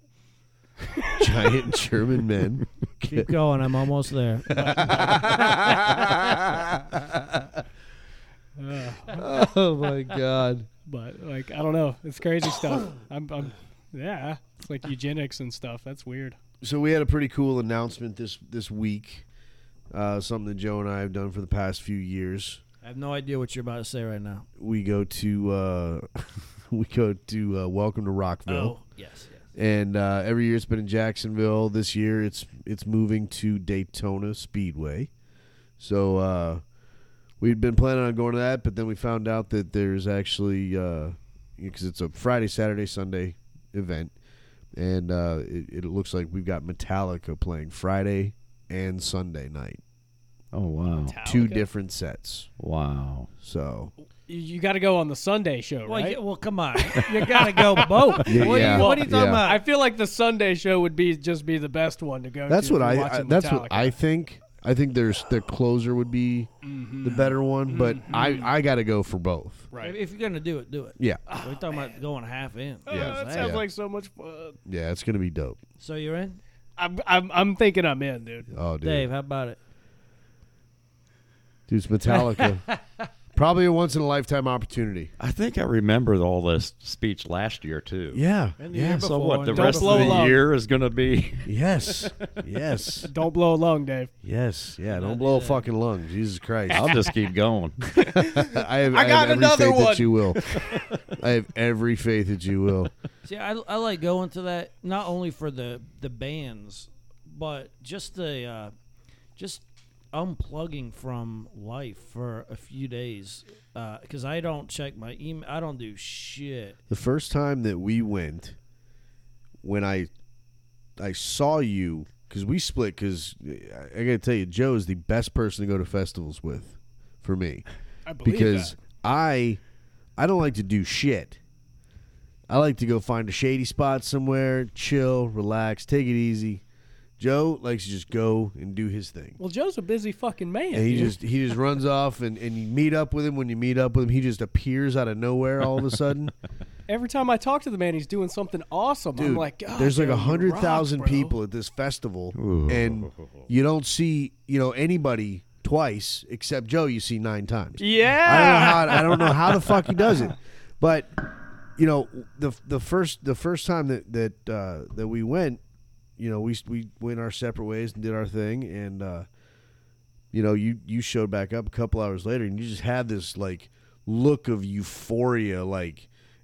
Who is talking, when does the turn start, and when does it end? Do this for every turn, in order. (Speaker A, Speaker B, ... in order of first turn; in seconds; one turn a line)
Speaker A: 0.9-1.6
Speaker B: 1.2-3.2
Speaker C: 3.0-5.0
Speaker A: 4.5-5.7
Speaker B: 4.5-7.5
Speaker A: 8.6-9.2
Speaker B: 9.1-10.7
Speaker A: 10.8-16.4
Speaker B: 16.6-19.2
Speaker B: 19.9-22.6
Speaker C: 22.8-24.4
Speaker B: 24.6-28.8
Speaker C: 28.5-29.4
Speaker B: 29.5-35.1
Speaker B: 35.8-36.6
Speaker B: 37.4-44.1
Speaker B: 44.7-49.8
Speaker D: 50.5-51.2
Speaker A: 51.0-51.6
Speaker B: 51.2-52.5
Speaker D: 52.6-53.3
Speaker B: 53.4-53.9
Speaker A: 54.2-56.2
Speaker C: 55.9-59.6
Speaker A: 56.8-63.9
Speaker B: 58.2-59.4
Speaker B: 62.5-66.5
Speaker A: 66.6-68.5
Speaker B: 67.0-69.7
Speaker A: 69.7-70.0
Speaker C: 69.8-73.6
Speaker A: 71.3-71.9
Speaker A: 72.9-74.6
Speaker B: 72.9-73.6
Speaker B: 74.7-75.6
Speaker C: 75.8-76.4
Speaker A: 76.8-78.5
Speaker B: 78.5-79.1
Speaker C: 78.8-79.6
Speaker B: 81.7-82.7
Speaker C: 82.2-83.1
Speaker B: 83.3-85.1
Speaker D: 85.2-88.2
Speaker B: 88.1-89.1
Speaker C: 88.6-90.4
Speaker D: 89.0-92.1
Speaker A: 89.5-90.4
Speaker B: 91.4-93.1
Speaker A: 93.1-94.1
Speaker B: 94.2-96.9
Speaker C: 94.9-95.7
Speaker D: 96.7-97.8
Speaker A: 97.9-100.8
Speaker B: 98.1-102.9
Speaker C: 103.2-108.7
Speaker C: 109.3-116.8
Speaker B: 116.9-118.5
Speaker B: 119.6-120.1
Speaker B: 121.0-127.6
Speaker A: 128.1-128.7
Speaker B: 128.2-129.6
Speaker B: 130.2-131.4
Speaker B: 132.5-136.6
Speaker B: 137.2-139.4
Speaker A: 139.4-141.2
Speaker B: 140.7-146.3
Speaker A: 146.9-151.3
Speaker B: 149.2-161.2
Speaker D: 152.3-153.4
Speaker A: 157.8-160.3
Speaker B: 161.8-165.6
Speaker B: 166.2-169.3
Speaker B: 170.3-176.1